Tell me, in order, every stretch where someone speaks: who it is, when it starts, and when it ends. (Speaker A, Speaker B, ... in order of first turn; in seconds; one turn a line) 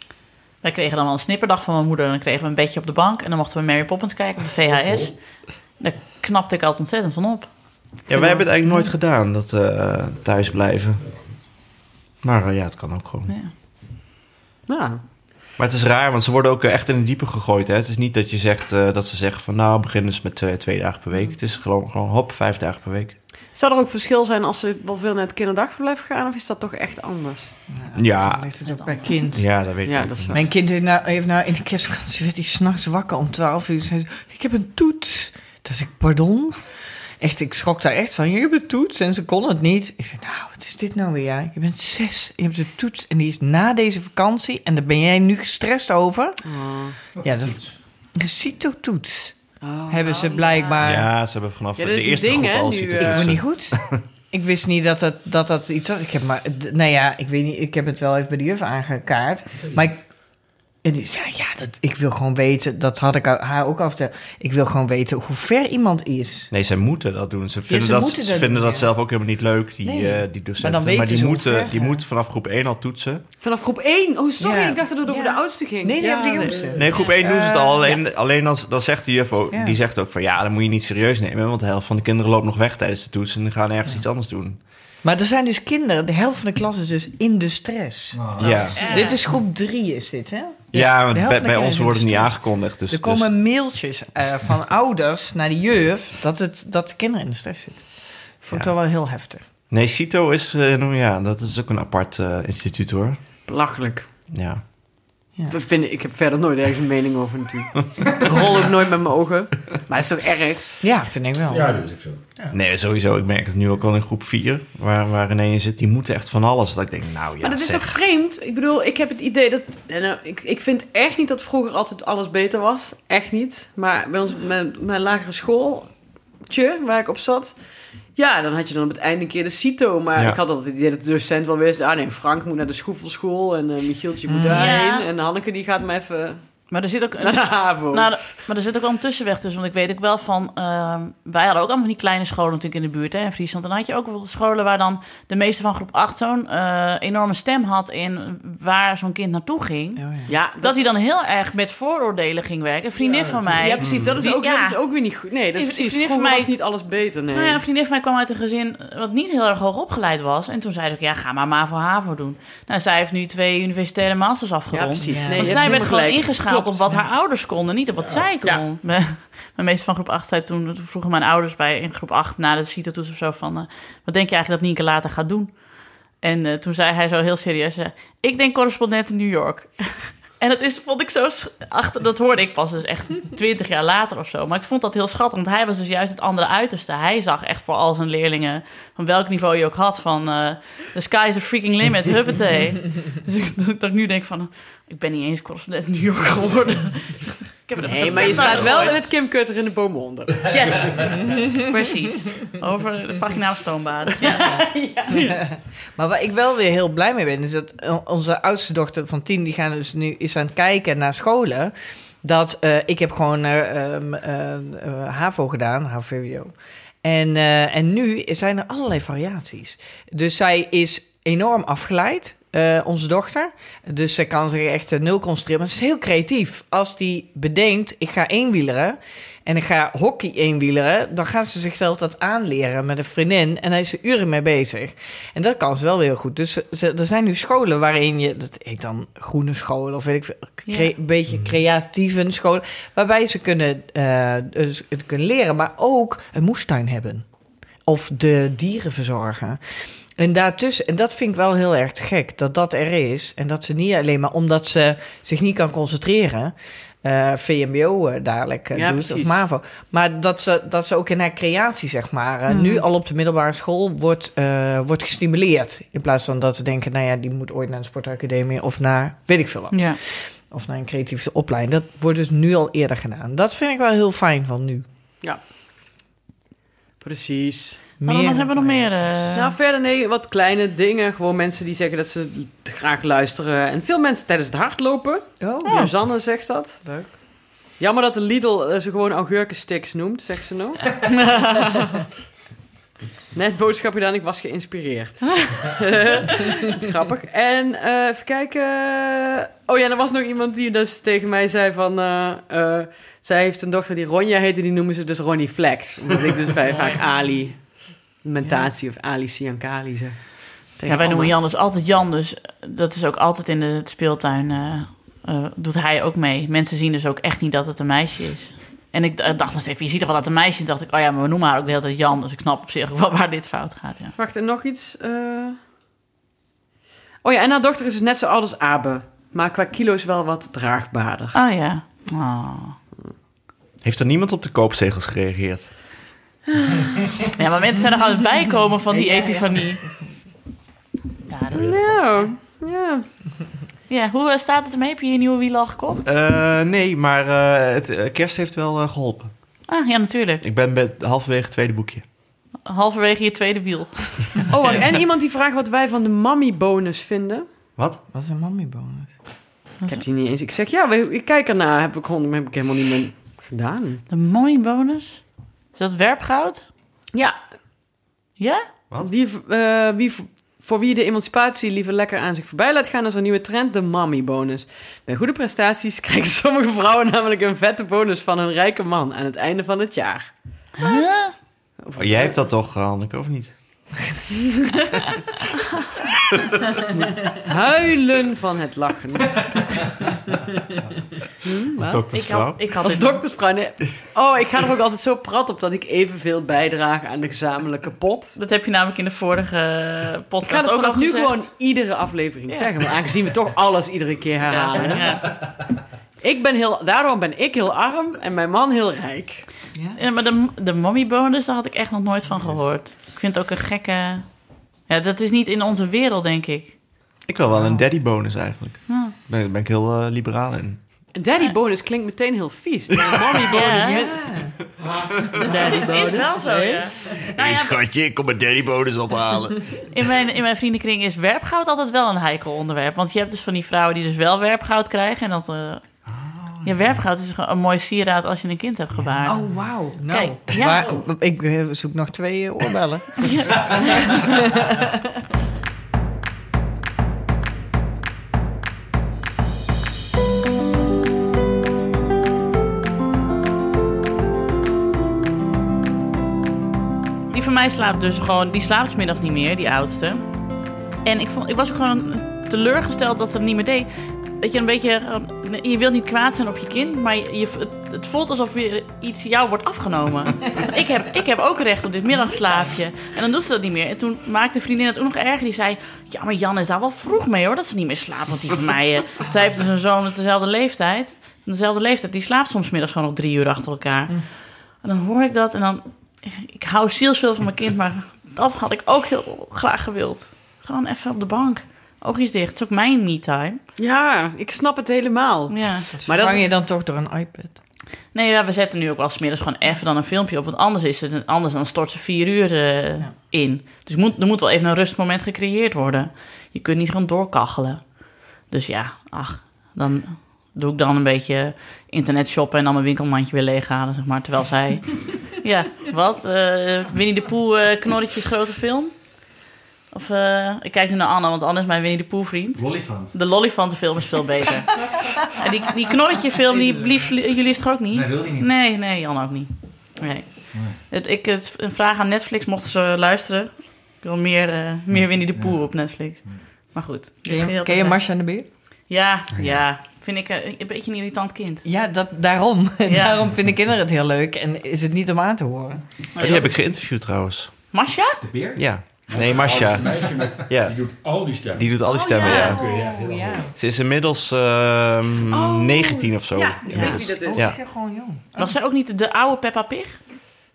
Speaker A: 0.6-8.3
Speaker B: 4.8-5.2
Speaker C: 8.1-11.6
Speaker C: 12.2-13.3
Speaker A: 13.3-13.5
Speaker D: 14.7-15.0
Speaker C: 15.6-23.2
Speaker D: 23.5-27.6
Speaker E: 27.7-51.1
Speaker C: 27.9-28.5
Speaker A: 28.7-28.9
Speaker C: 29.3-30.4
Speaker D: 29.8-30.5
Speaker D: 46.5-47.0
Speaker F: 47.2-47.7
Speaker D: 49.6-50.7
Speaker A: 50.2-50.5
Speaker C: 50.8-54.0
Speaker D: 51.8-53.4
Speaker E: 53.0-66.5
Speaker C: 66.5-73.2
Speaker E: 67.7-69.2
Speaker E: 69.8-72.0
Speaker D: 73.4-76.8
Speaker E: 74.4-78.0
Speaker C: 76.0-84.6
Speaker A: 76.8-77.2
Speaker E: 79.5-79.8
Speaker E: 85.0-99.5
Speaker F: 88.1-88.7
Speaker C: 88.4-89.2
Speaker A: 88.8-89.2
Speaker C: 90.7-93.3
Speaker C: 99.7-103.3
Speaker D: 103.5-104.1
Speaker C: 104.3-104.7
Speaker D: 105.5-110.6
Speaker E: 110.8-112.5
Speaker B: 111.5-112.2
Speaker C: 112.5-118.0
Speaker D: 117.4-127.6
Speaker D: 128.1-138.3
Speaker E: 134.3-134.7
Speaker A: 134.5-135.1
Speaker A: 136.7-154.8
Speaker E: 150.0-150.3
Speaker D: 150.3-150.9
Speaker E: 153.0-153.8
Speaker D: 153.5-157.6
Speaker C: 153.8-154.2
Speaker A: 155.6-156.6
Speaker A: 157.3-199.0
Speaker D: 164.7-166.9
Speaker E: 165.1-165.9
Speaker B: 168.0-168.3
Speaker D: 197.8-200.9
Speaker E: 201.2-201.6
Speaker A: 201.7-204.5
Speaker D: 204.2-205.2
Speaker E: 204.4-247.3
Speaker A: 205.1-205.3
Speaker E: 247.8-274.9
Speaker D: 258.7-259.4
Speaker D: 262.5-262.8
Speaker A: 269.7-270.0
Speaker D: 275.2-275.5
Speaker D: 277.0-277.9
Speaker E: 278.0-279.4
Speaker A: 278.1-279.5
Speaker D: 279.3-287.2
Speaker E: 285.4-285.9
Speaker E: 286.8-287.1
Speaker D: 287.8-291.1
Speaker A: 291.1-291.6
Speaker D: 293.3-311.4
Speaker A: 306.7-307.2
Speaker E: 308.4-308.7
Speaker A: 310.9-324.2
Speaker D: 324.2-325.6
Speaker D: 327.2-331.4
Speaker A: 331.3-332.8
Speaker C: 333.8-335.9
Speaker A: 337.4-339.8
Speaker E: 338.9-340.1
Speaker A: 341.3-342.3
Speaker D: 341.5-343.1
Speaker A: 343.9-346.1
Speaker C: 346.1-349.6
Speaker A: 349.7-350.4
Speaker C: 350.4-352.1
Speaker A: 352.6-354.4
Speaker D: 354.5-357.5
Speaker E: 358.1-359.4
Speaker D: 359.9-364.0
Speaker A: 364.1-366.7
Speaker A: 368.4-368.7
Speaker D: 369.0-380.4
Speaker A: 380.8-381.3
Speaker D: 381.8-382.4
Speaker C: 382.0-384.1
Speaker D: 386.9-389.8
Speaker D: 391.4-391.8
Speaker C: 391.8-392.6
Speaker A: 392.1-393.4
Speaker D: 392.8-398.4
Speaker A: 398.4-401.5
Speaker D: 400.4-405.5
Speaker A: 404.5-405.4
Speaker D: 406.2-409.5
Speaker E: 409.7-410.0
Speaker A: 410.0-416.8
Speaker C: 417.3-421.1
Speaker E: 417.5-417.9
Speaker A: 418.9-419.1
Speaker D: 421.1-424.1
Speaker A: 423.5-424.0
Speaker E: 423.6-424.6
Speaker B: 424.8-426.6
Speaker C: 425.3-425.7
Speaker A: 425.4-427.8
Speaker E: 426.2-426.8
Speaker C: 427.3-429.8
Speaker A: 429.9-435.9
Speaker C: 436.1-436.7
Speaker A: 436.6-439.5
Speaker E: 439.2-445.0
Speaker A: 440.1-441.0
Speaker A: 443.2-444.4
Speaker A: 457.3-460.2
Speaker A: 461.0-493.6
Speaker D: 493.8-496.5
Speaker A: 495.5-495.9
Speaker E: 495.9-497.6
Speaker A: 498.1-538.1
Speaker F: 522.6-523.2
Speaker F: 526.6-527.0
Speaker F: 527.9-528.5
Speaker F: 530.5-530.8
Speaker F: 535.0-536.5
Speaker E: 537.2-538.5
Speaker A: 538.9-541.7
Speaker E: 541.6-546.0
Speaker A: 542.9-543.2
Speaker A: 546.1-546.5
Speaker C: 546.2-547.7
Speaker A: 547.7-548.2
Speaker F: 548.2-550.4
Speaker C: 548.6-550.9
Speaker B: 549.1-551.8
Speaker C: 551.5-552.7
Speaker A: 551.9-552.6
Speaker E: 551.9-553.5
Speaker B: 552.4-553.5
Speaker C: 553.5-557.6
Speaker D: 555.3-557.5
Speaker E: 556.7-558.5
Speaker A: 556.7-557.1
Speaker A: 558.4-560.1